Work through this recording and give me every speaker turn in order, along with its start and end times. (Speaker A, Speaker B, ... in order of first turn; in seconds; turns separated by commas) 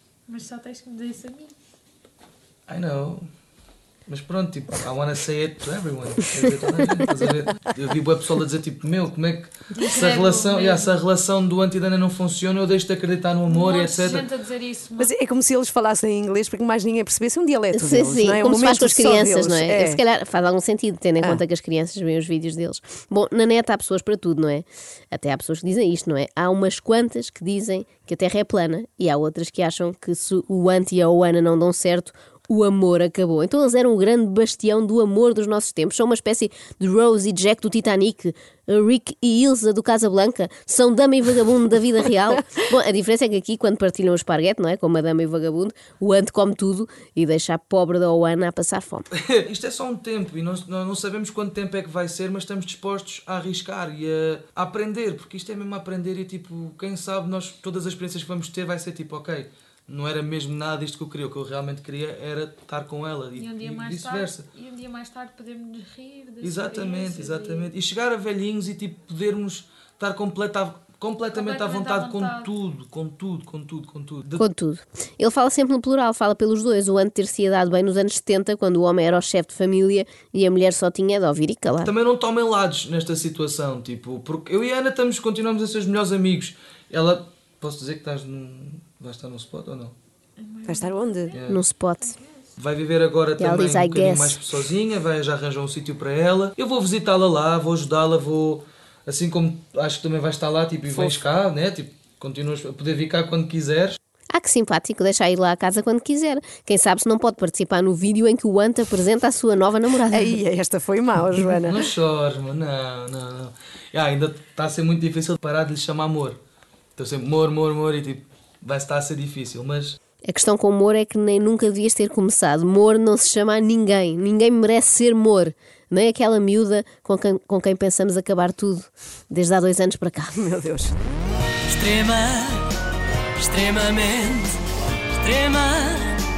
Speaker A: 0.3-1.5, Speaker B: 2.7-3.2, Speaker B: 4.1-14.3, Speaker A: 9.8-10.9, Speaker A: 13.5-15.1, Speaker C: 15.0-20.0, Speaker D: 17.7-49.1, Speaker B: 49.2-64.5, Speaker A: 63.4-67.7, Speaker B: 66.4-74.4, Speaker A: 71.3-72.5, Speaker D: 74.4-81.9, Speaker B: 81.8-89.9, Speaker A: 90.4-91.4, Speaker C: 90.7-91.4, Speaker B: 91.3-91.6, Speaker D: 91.5-92.2, Speaker B: 92.6-104.0, Speaker D: 93.4-94.4, Speaker C: 100.9-101.2, Speaker D: 104.3-110.4, Speaker C: 110.1-111.8, Speaker B: 111.6-116.4, Speaker B: 117.0-120.0, Speaker D: 120.2-130.5, Speaker C: 130.4-130.9, Speaker E: 131.7-132.7, Speaker E: 133.3-136.2